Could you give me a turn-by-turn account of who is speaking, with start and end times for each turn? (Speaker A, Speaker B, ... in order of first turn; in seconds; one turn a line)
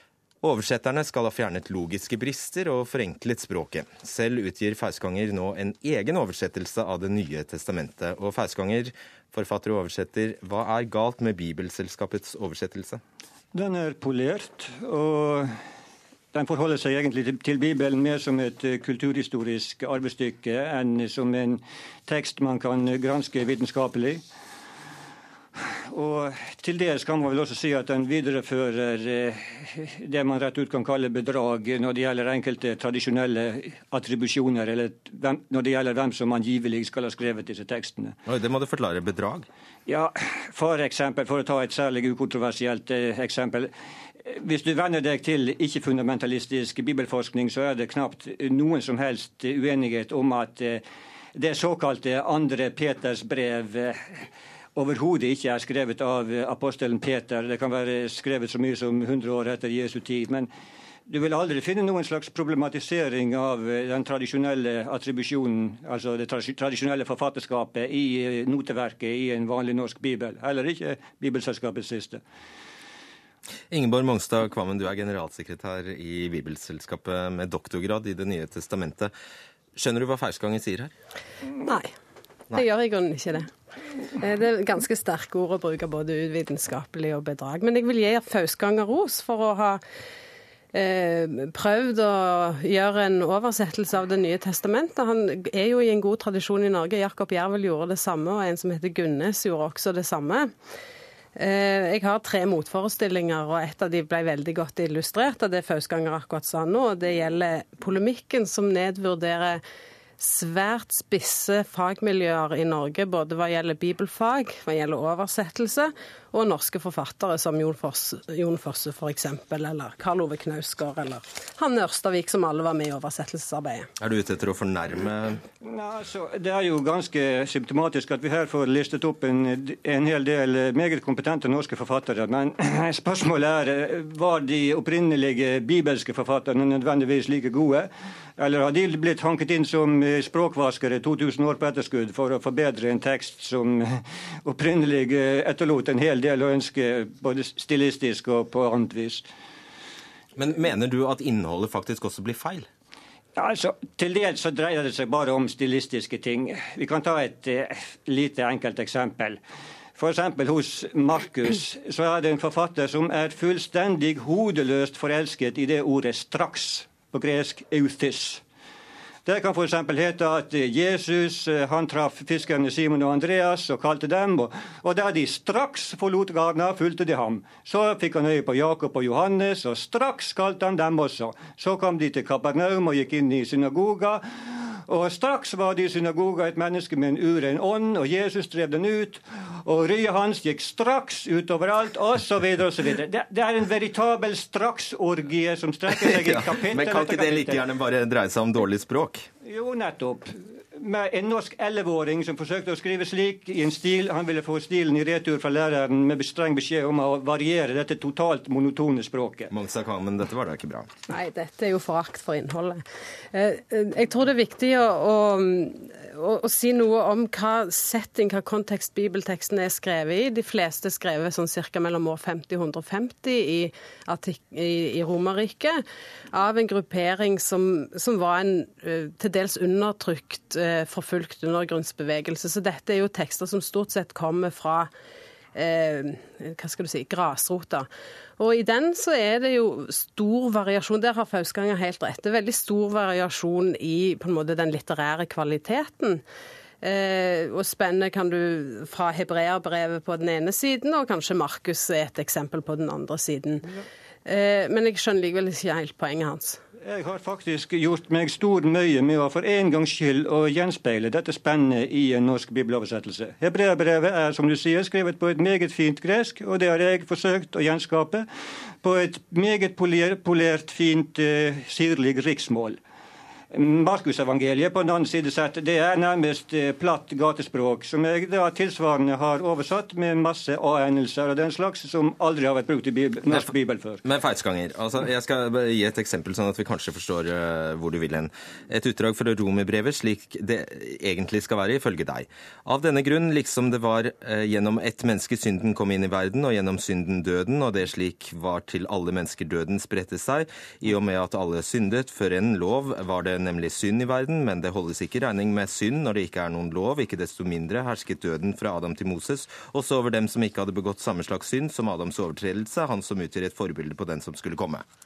Speaker A: 0.4-13.0
Speaker B: 13.5-15.6
Speaker B: 16.3-24.2
Speaker B: 25.9-38.2
Speaker A: 38.3-39.5
Speaker B: 39.9-43.7
Speaker B: 44.2-50.8
Speaker B: 51.4-54.2
Speaker B: 54.8-60.5
Speaker B: 61.1-72.2
Speaker A: 73.7-79.1
Speaker A: 79.8-80.9
Speaker C: 81.7-81.9
Speaker C: 82.5-83.5
Speaker C: 84.1-89.8
Speaker C: 90.7-100.5
Speaker C: 101.4-109.6
Speaker C: 110.2-123.9
Speaker A: 124.0-125.4
Speaker B: 125.6-149.3
Speaker A: 150.4-152.7
Speaker B: 153.4-159.4
Speaker B: 160.0-168.4
Speaker B: 169.2-197.6
Speaker A: 195.9-199.3
Speaker B: 199.4-209.5
Speaker A: 209.5-210.9
Speaker C: 211.1-234.9
Speaker C: 235.6-237.9
Speaker C: 238.4-246.2
Speaker C: 246.8-253.7
Speaker C: 254.3-256.6
Speaker B: 256.8-268.3
Speaker B: 268.8-272.8
Speaker B: 273.5-284.0
Speaker A: 284.0-314.9